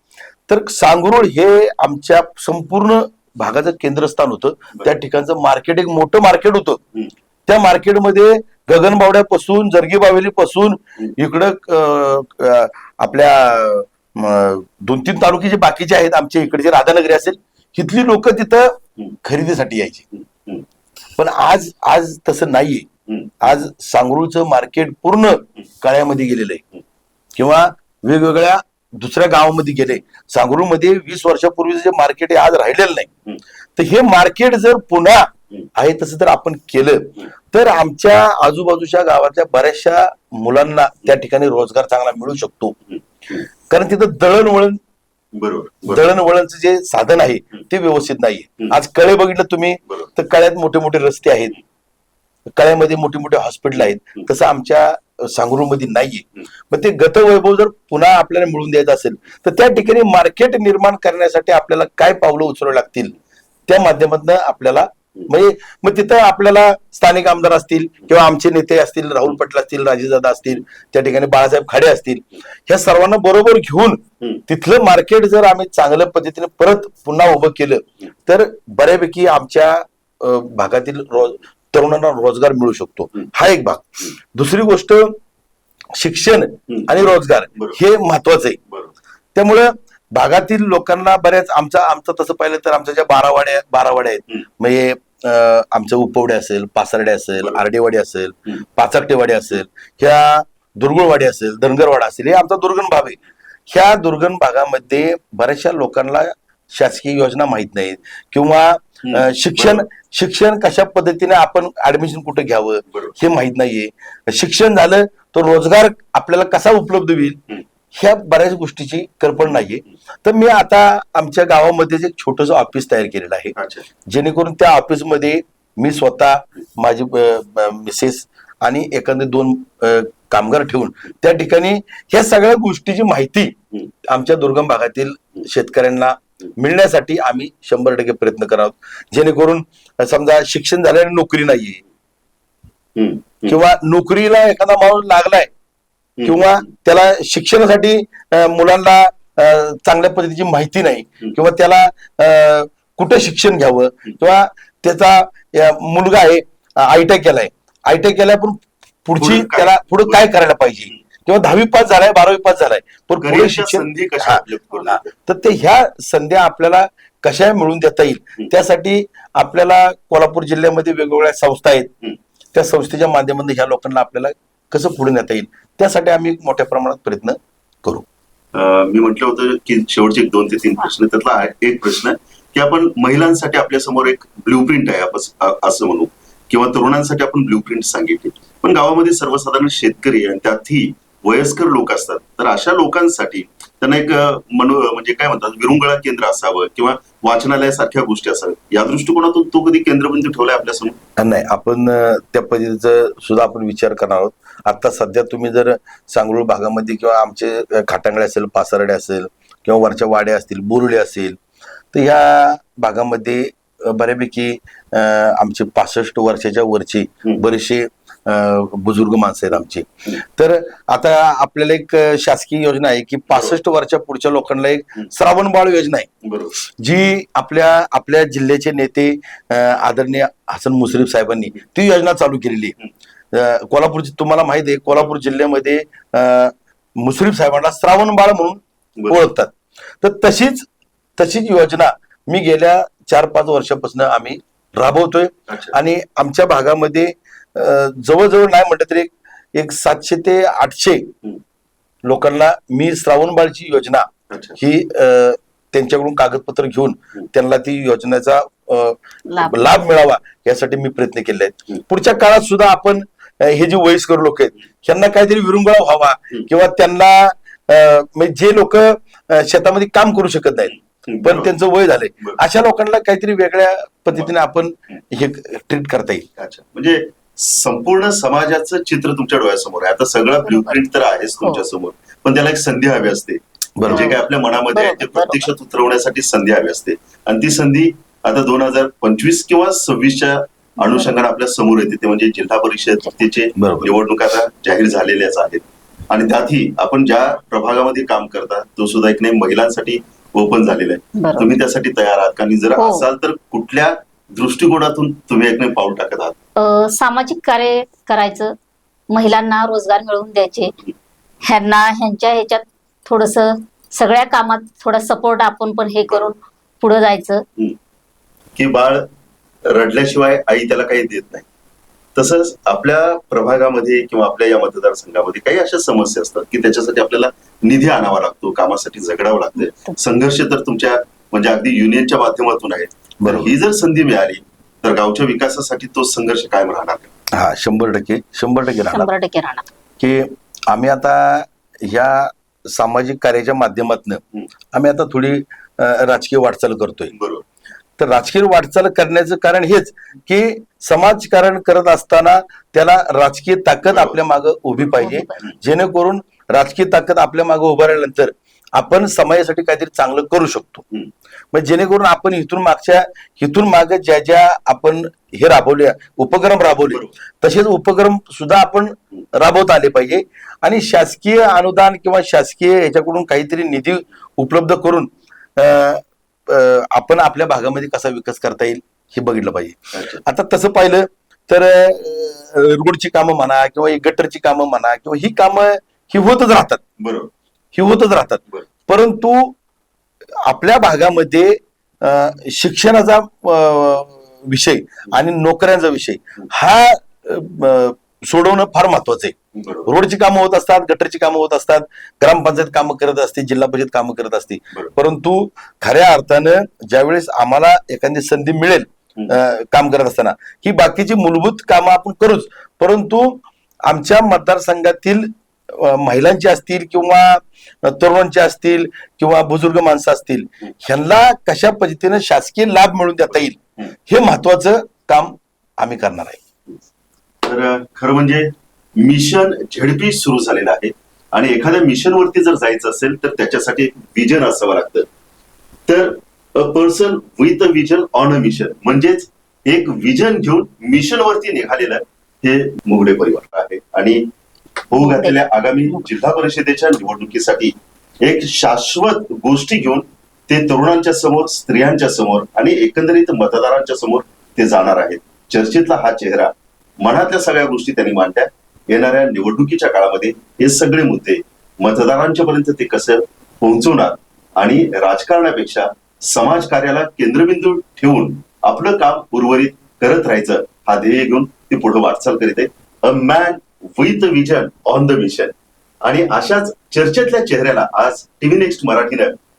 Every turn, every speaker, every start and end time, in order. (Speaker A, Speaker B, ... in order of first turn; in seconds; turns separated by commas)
Speaker A: 0.5-6.8, Speaker A: 7.5-20.0, Speaker A: 21.2-22.9, Speaker B: 23.1-23.4, Speaker A: 23.4-26.6, Speaker A: 27.4-33.1, Speaker A: 33.8-42.8, Speaker B: 43.0-43.5, Speaker A: 43.7-44.8, Speaker B: 45.3-46.0, Speaker A: 45.9-51.6, Speaker A: 52.6-63.1, Speaker A: 63.7-85.2, Speaker A: 85.9-88.6, Speaker B: 86.7-87.0, Speaker B: 88.7-88.9, Speaker A: 89.3-117.4, Speaker B: 109.0-109.8, Speaker A: 117.9-123.5, Speaker B: 123.6-123.9, Speaker A: 124.1-141.8, Speaker B: 143.0-143.6, Speaker A: 143.5-145.5, Speaker A: 146.2-171.9, Speaker B: 159.2-160.2, Speaker B: 163.2-165.1, Speaker A: 172.5-178.1, Speaker B: 178.5-201.0, Speaker A: 201.2-211.4, Speaker A: 211.9-226.1, Speaker B: 226.2-226.6, Speaker A: 226.8-232.8, Speaker A: 233.3-251.1, Speaker B: 245.5-245.8, Speaker A: 252.1-276.3, Speaker B: 254.3-254.6, Speaker C: 259.3-259.7, Speaker B: 271.1-271.5, Speaker B: 276.4-306.4, Speaker C: 280.5-280.8, Speaker A: 283.8-284.1, Speaker C: 283.9-285.5, Speaker C: 290.8-291.1, Speaker A: 293.6-293.9, Speaker C: 301.2-301.5, Speaker C: 302.8-303.1, Speaker C: 306.6-308.6, Speaker C: 309.1-310.7, Speaker C: 311.4-317.4, Speaker B: 318.6-319.1, Speaker B: 319.7-321.5, Speaker B: 322.2-337.1, Speaker C: 329.6-329.9, Speaker A: 333.2-333.5, Speaker A: 337.3-339.1, Speaker C: 338.9-339.7, Speaker A: 340.0-344.2, Speaker A: 344.7-347.1, Speaker B: 347.1-347.4, Speaker A: 348.0-360.8, Speaker B: 353.9-354.2, Speaker C: 354.8-355.4, Speaker A: 361.5-386.8, Speaker B: 366.9-367.1, Speaker B: 379.9-380.2, Speaker B: 387.0-387.3, Speaker A: 387.7-389.6, Speaker A: 390.4-426.4, Speaker B: 399.6-399.9, Speaker B: 427.4-435.1, Speaker B: 435.9-444.3, Speaker B: 444.9-479.4, Speaker C: 445.0-445.4